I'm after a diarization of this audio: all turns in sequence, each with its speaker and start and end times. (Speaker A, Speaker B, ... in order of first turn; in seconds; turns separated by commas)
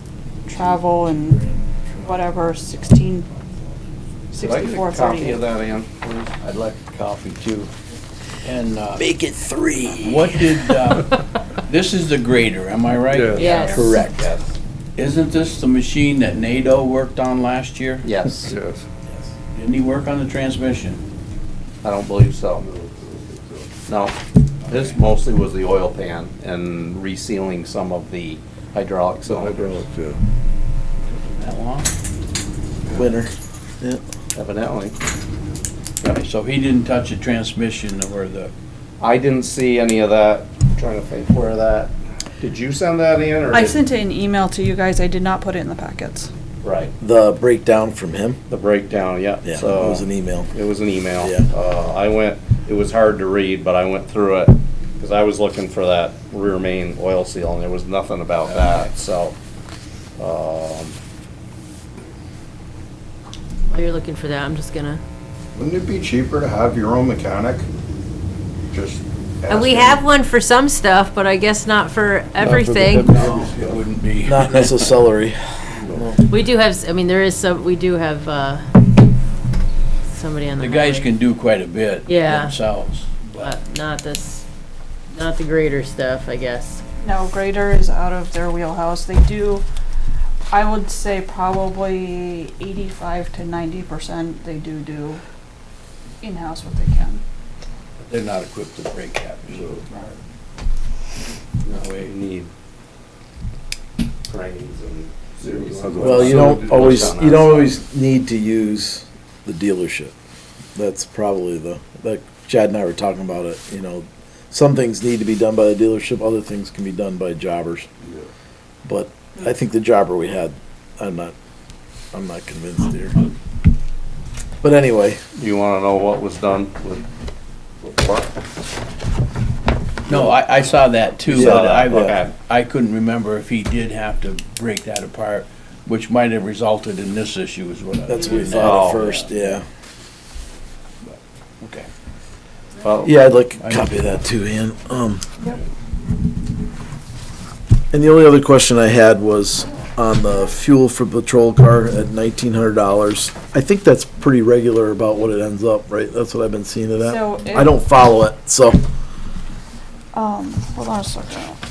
Speaker A: 0.5-3.3, Speaker A: 4.3-5.4, Speaker B: 4.4-6.2, Speaker C: 6.2-7.7, Speaker C: 8.4-9.0, Speaker D: 8.9-10.5, Speaker C: 10.0-14.4, Speaker E: 13.1-13.7, Speaker B: 13.3-14.4, Speaker F: 13.3-13.9, Speaker C: 14.9-18.1, Speaker B: 18.0-18.5, Speaker E: 18.4-18.8, Speaker C: 19.5-21.0, Speaker B: 21.8-22.6, Speaker E: 22.6-23.7, Speaker B: 23.8-29.8, Speaker E: 29.3-30.2, Speaker C: 31.1-31.9, Speaker D: 32.9-34.0, Speaker B: 34.3-35.0, Speaker C: 36.0-38.5, Speaker B: 39.0-43.8, Speaker A: 43.5-46.3, Speaker B: 46.6-46.9, Speaker D: 47.0-48.4, Speaker B: 48.5-59.3, Speaker D: 49.4-50.5, Speaker D: 51.2-51.5, Speaker C: 58.5-58.8, Speaker B: 60.2-61.0, Speaker F: 63.7-65.0, Speaker E: 65.5-67.7, Speaker E: 68.7-70.1, Speaker F: 69.5-73.1, Speaker E: 72.4-73.8, Speaker C: 72.9-74.9, Speaker D: 74.2-76.2, Speaker E: 75.8-76.1, Speaker F: 76.3-78.7, Speaker F: 80.1-81.1, Speaker C: 80.6-83.5, Speaker F: 82.0-82.6, Speaker F: 83.3-84.4, Speaker F: 85.1-86.8, Speaker A: 87.0-89.6, Speaker A: 90.5-95.2, Speaker A: 96.2-97.2, Speaker C: 98.0-99.8, Speaker B: 101.6-102.5, Speaker C: 101.7-102.1, Speaker B: 104.3-107.8, Speaker E: 105.4-107.2, Speaker D: 106.0-110.1, Speaker D: 110.8-117.9, Speaker D: 118.8-121.3, Speaker D: 122.1-123.2, Speaker D: 124.6-125.2, Speaker B: 125.3-127.0, Speaker B: 127.8-128.3, Speaker C: 130.1-139.5, Speaker D: 130.1-130.4, Speaker B: 131.2-132.3, Speaker D: 131.3-132.2, Speaker D: 138.1-139.6, Speaker B: 138.5-139.1, Speaker C: 141.0-141.9, Speaker B: 142.8-143.1, Speaker D: 143.0-145.3, Speaker C: 143.6-144.0, Speaker D: 147.9-158.8, Speaker A: 157.0-157.7, Speaker A: 160.1-161.6